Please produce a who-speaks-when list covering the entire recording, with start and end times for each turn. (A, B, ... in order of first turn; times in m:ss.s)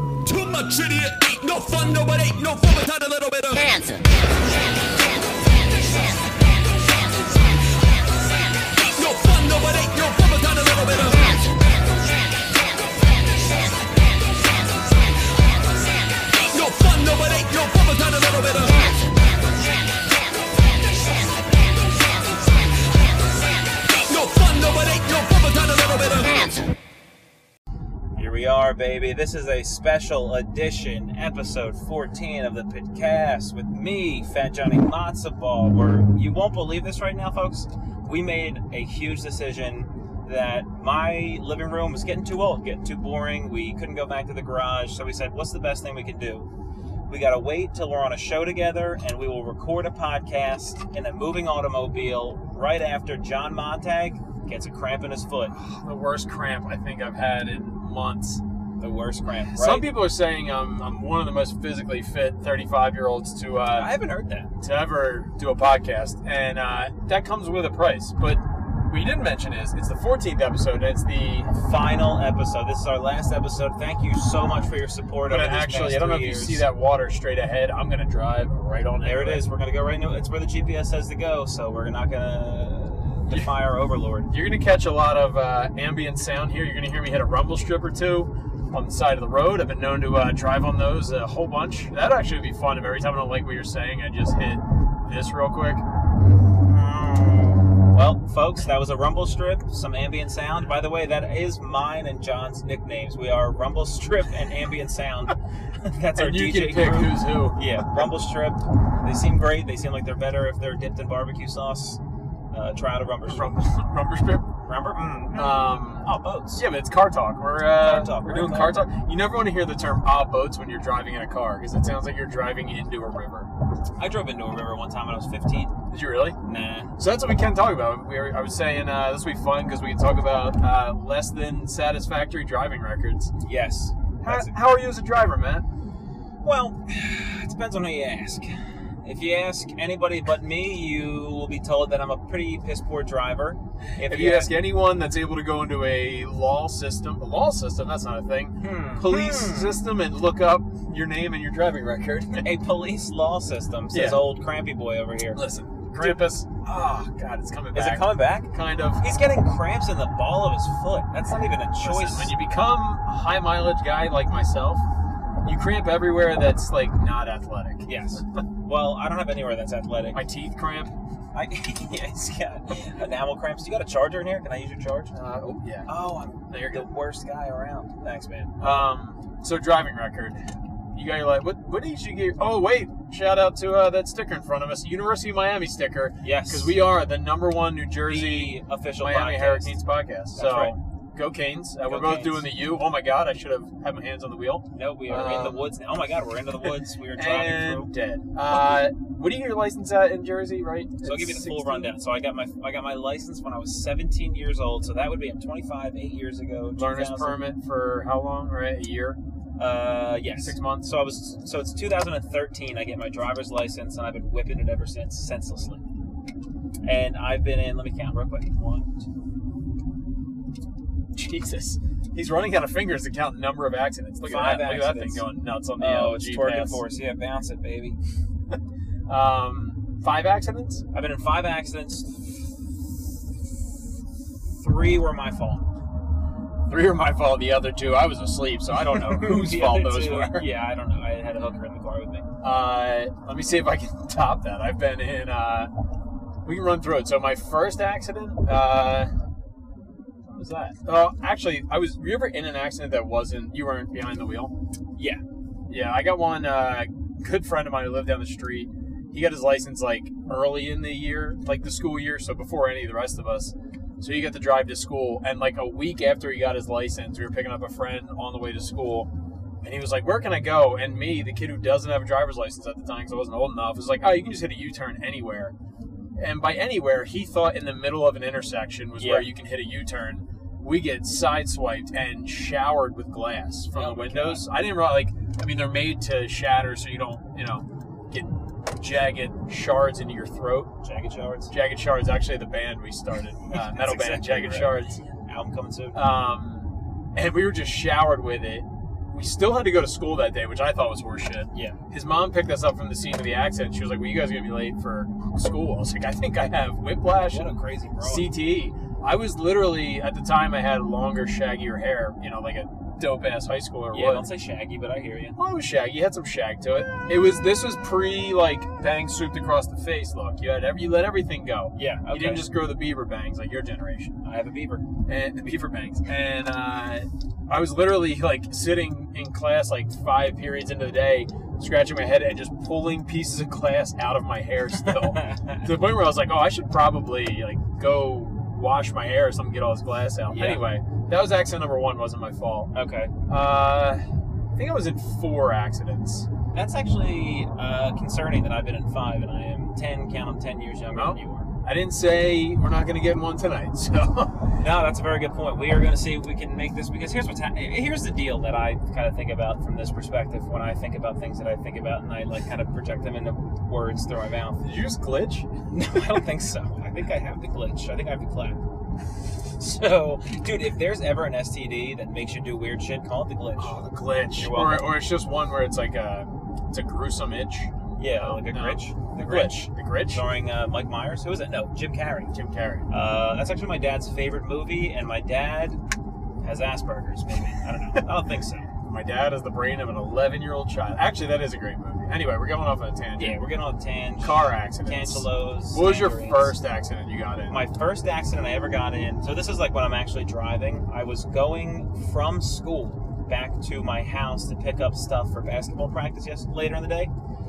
0:00.2-0:04.0 A
0:08.7-0:11.6 A
0:16.3-0:19.1 A
0:23.9-0:26.7 A
0:28.2-0:46.5 B
0:47.1-0:55.5 B
0:55.5-0:58.4 C
0:58.8-0:59.9 B
0:59.5-1:03.9 C
1:03.7-1:04.5 B
1:04.6-1:11.5 C
1:11.5-1:16.7 B
1:15.2-1:19.4 C
1:19.0-1:24.3 B
1:24.3-1:35.8 C
1:36.6-1:52.0 B
1:46.2-1:47.8 C
1:52.5-1:53.5 B
1:53.2-1:54.4 C
1:54.6-1:56.6 B
1:55.3-2:03.5 C
1:57.8-1:58.8 B
2:04.0-2:05.8 B
2:05.9-2:06.4 C
2:06.4-2:06.9 B
2:07.0-2:13.3 C
2:13.4-2:14.5 B
2:14.2-2:15.6 C
2:16.4-2:24.5 B
2:24.0-2:32.5 C
2:28.6-2:29.8 B
2:32.4-2:35.4 B
2:33.9-2:34.2 C
2:35.3-2:39.1 C
2:36.0-2:36.2 B
2:37.7-2:42.3 B
2:41.8-2:44.8 C
2:45.4-2:47.9 C
2:47.8-2:50.2 B
2:50.1-2:50.9 C
2:51.3-2:55.1 B
2:55.1-2:55.9 C
2:55.8-2:58.8 B
2:56.5-2:56.9 C
2:58.6-3:15.7 C
3:06.2-3:06.8 B
3:08.0-3:09.8 B
3:10.3-3:10.8 B
3:11.8-3:12.5 B
3:14.7-3:17.9 B
3:17.1-3:21.9 C
3:21.0-3:27.4 B
3:26.8-3:29.2 C
3:29.6-3:35.8 B
3:30.3-3:30.9 C
3:36.8-3:39.0 B
3:41.1-3:46.8 C
3:44.2-3:45.3 B
3:45.8-3:48.0 B
3:49.1-3:50.8 C
3:50.9-3:52.5 B
3:54.5-3:55.7 B
3:56.7-4:00.5 C
3:58.9-4:02.3 B
4:02.4-4:05.7 C
4:06.4-4:09.1 C
4:10.2-4:14.5 C
4:15.0-4:15.2 B
4:15.7-4:29.1 C
4:29.6-4:35.5 C
4:36.2-4:50.7 C
4:39.0-4:39.3 B
4:43.7-4:44.4 B
4:50.8-4:51.5 B
4:51.5-4:55.0 C
4:53.4-4:56.1 B
4:55.9-5:14.3 C
5:01.5-5:01.8 B
5:07.3-5:08.3 B
5:13.9-5:15.4 B
5:15.4-5:24.2 C
5:21.8-5:22.5 B
5:24.2-5:24.8 B
5:25.0-5:42.7 C
5:34.8-5:35.7 B
5:40.3-5:40.6 B
5:42.7-5:43.1 B
5:43.3-5:44.0 C
5:44.6-5:46.3 C
5:46.5-5:51.5 B
5:50.9-5:54.6 C
5:54.6-6:04.6 B
6:04.6-6:05.5 C
6:05.7-6:08.6 B
6:09.4-6:13.8 B
6:13.6-6:20.2 C
6:14.4-6:14.9 B
6:18.0-6:22.3 B
6:22.3-6:22.9 C
6:22.9-6:25.8 B
6:26.4-6:28.7 B
6:28.8-6:33.4 C
6:33.2-6:36.5 B
6:34.2-6:37.6 C
6:37.5-6:47.1 B